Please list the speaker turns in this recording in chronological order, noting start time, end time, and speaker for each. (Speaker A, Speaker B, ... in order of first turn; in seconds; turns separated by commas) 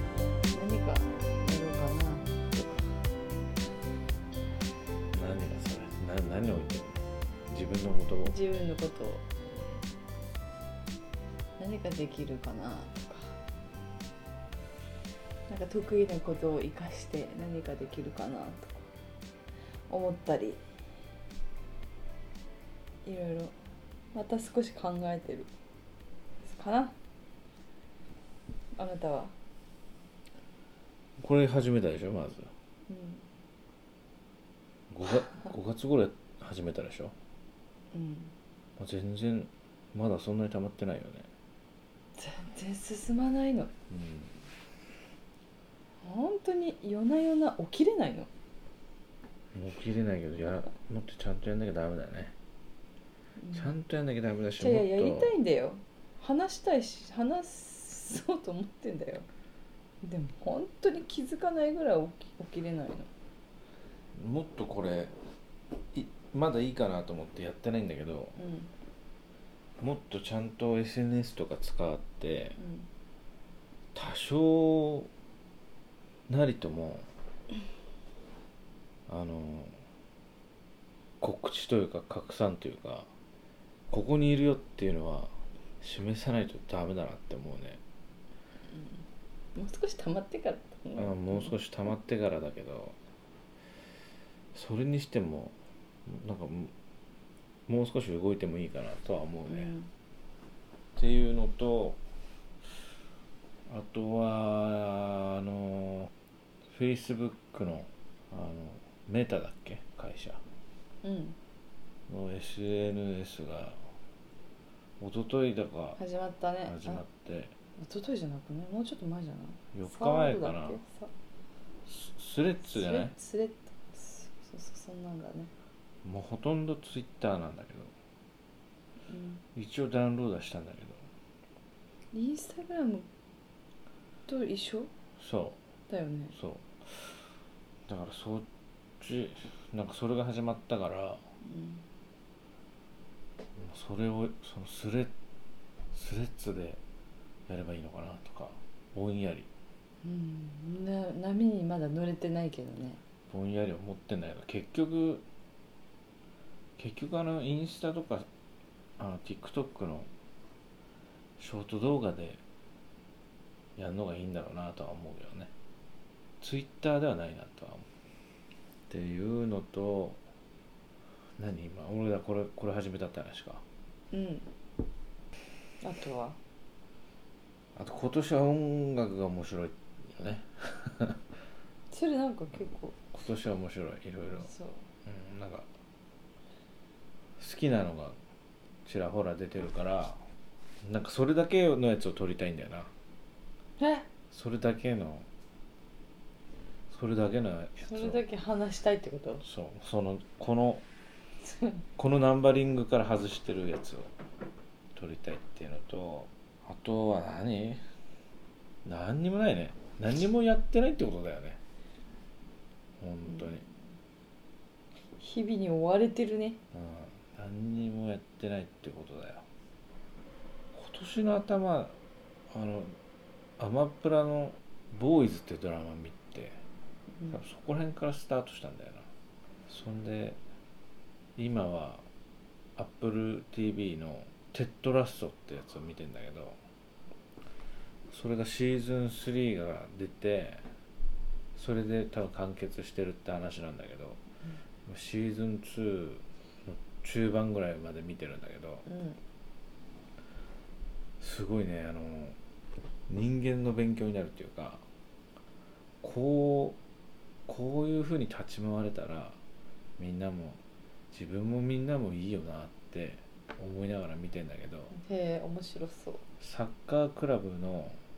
Speaker A: 0.5-2.9, Speaker B: 5.1-8.3, Speaker A: 8.2-9.3, Speaker A: 11.6-13.3, Speaker A: 15.5-18.9, Speaker A: 19.9-20.6, Speaker A: 23.0-23.5, Speaker A: 24.1-25.5, Speaker A: 26.4-26.9, Speaker A: 28.8-29.3, Speaker B: 31.2-32.5, Speaker A: 32.9-33.2, Speaker B: 34.9-37.1, Speaker A: 37.9-38.3, Speaker B: 38.8-41.3, Speaker A: 42.1-43.7, Speaker B: 43.9-44.3, Speaker A: 46.0-48.3, Speaker B: 49.5-52.3, Speaker A: 53.4-53.7, Speaker B: 53.5-55.3, Speaker A: 54.6-59.2, Speaker A: 60.0-63.1, Speaker B: 64.1-65.1, Speaker B: 65.9-68.3, Speaker A: 68.4-68.7, Speaker B: 69.8-72.6, Speaker A: 72.6-72.9, Speaker B: 73.9-75.1, Speaker B: 76.3-77.1, Speaker B: 79.1-79.8, Speaker B: 81.2-83.1, Speaker B: 83.9-87.8, Speaker A: 88.7-89.0, Speaker A: 89.5-91.5, Speaker B: 91.0-93.0, Speaker B: 94.5-95.5, Speaker B: 96.0-96.7, Speaker B: 97.7-99.7, Speaker A: 99.5-99.9, Speaker B: 101.0-102.0, Speaker B: 103.7-106.1, Speaker B: 106.7-110.4, Speaker A: 111.0-111.4, Speaker B: 112.1-113.8, Speaker B: 115.0-116.0, Speaker A: 116.0-117.0, Speaker B: 116.7-117.5, Speaker A: 117.8-121.1, Speaker B: 119.7-120.8, Speaker B: 121.8-123.1, Speaker A: 122.7-125.5, Speaker B: 126.0-127.9, Speaker A: 129.1-129.4, Speaker B: 129.5-131.0, Speaker A: 132.1-133.1, Speaker A: 134.3-134.9, Speaker B: 135.2-135.6, Speaker A: 135.9-136.3, Speaker B: 136.3-137.1, Speaker B: 137.9-138.4, Speaker B: 139.0-141.2, Speaker A: 141.4-141.8, Speaker B: 143.6-145.1, Speaker B: 145.9-146.8, Speaker B: 147.5-149.5, Speaker A: 150.0-153.0, Speaker B: 153.3-155.2, Speaker B: 156.8-158.3, Speaker B: 159.0-160.1, Speaker B: 161.4-162.4, Speaker B: 163.8-165.5, Speaker B: 166.4-167.9, Speaker B: 168.9-170.2, Speaker B: 171.4-173.6, Speaker A: 174.1-174.4, Speaker A: 175.8-176.4, Speaker B: 177.8-181.2, Speaker A: 181.9-182.9, Speaker B: 183.1-184.5, Speaker A: 184.3-184.8, Speaker B: 185.0-185.7, Speaker B: 187.4-188.2, Speaker B: 188.8-190.2, Speaker B: 190.8-192.9, Speaker A: 193.8-194.1, Speaker B: 194.3-195.2, Speaker B: 196.9-198.2, Speaker A: 197.8-199.4, Speaker B: 199.4-200.8, Speaker A: 201.4-201.8, Speaker B: 202.0-204.1, Speaker B: 204.9-207.8, Speaker B: 208.8-211.6, Speaker B: 213.0-213.6, Speaker A: 215.2-216.6, Speaker B: 216.7-219.4, Speaker B: 220.7-222.0, Speaker B: 222.5-222.9, Speaker B: 223.6-226.6, Speaker B: 227.3-229.1, Speaker B: 229.7-230.4, Speaker B: 231.4-232.0, Speaker B: 232.8-236.6, Speaker B: 238.1-240.6, Speaker B: 241.5-244.2, Speaker B: 244.8-248.8, Speaker A: 248.9-249.2, Speaker B: 251.2-252.4, Speaker B: 253.1-254.8, Speaker B: 256.0-256.8, Speaker B: 257.5-259.4, Speaker B: 260.0-260.6, Speaker B: 261.1-264.9, Speaker A: 264.9-266.2, Speaker B: 266.4-268.0